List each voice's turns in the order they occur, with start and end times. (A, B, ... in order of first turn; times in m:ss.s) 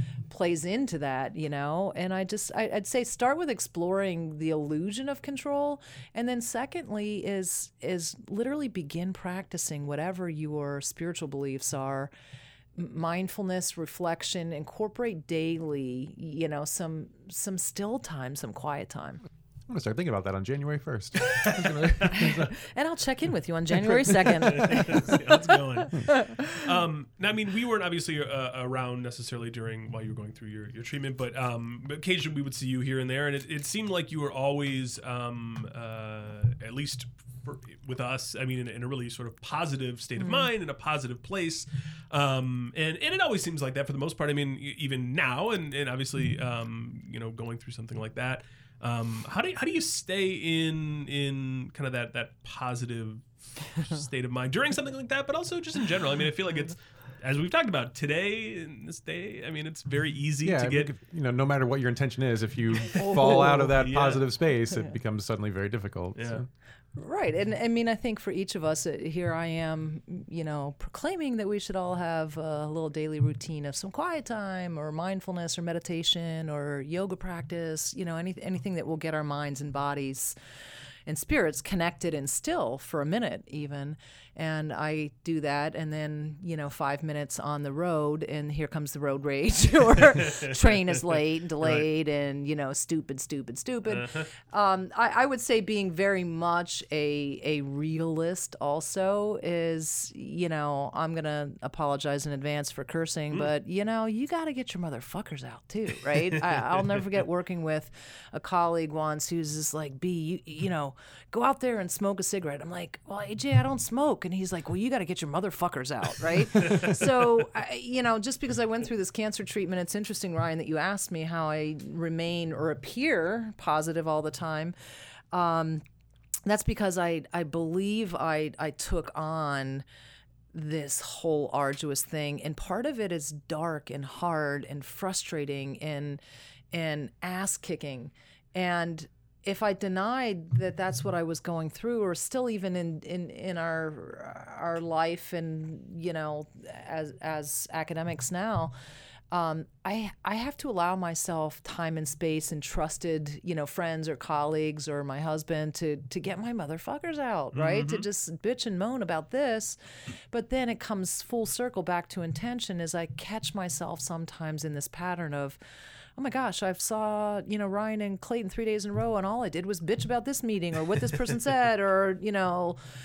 0:00.3-0:12.1 A
0:12.8-0:19.2 A
0:19.7-0:22.5 B
0:21.4-0:22.2 C
0:22.6-0:25.4 A
0:24.2-1:00.9 C
0:26.0-0:26.6 A
0:40.2-0:40.5 A
1:00.4-1:06.5 B
1:02.9-1:04.2 C
1:03.0-1:03.7 A
1:06.2-1:06.4 C
1:07.0-1:20.3 A
1:21.0-2:04.7 A
1:31.6-1:31.9 C
1:33.9-1:34.2 C
2:05.3-2:05.8 A
2:06.4-2:09.8 A
2:10.5-2:16.2 A
2:16.7-2:28.7 A
2:29.3-2:39.8 A
2:37.5-2:38.0 C
2:40.3-2:45.6 A
2:46.2-2:52.8 A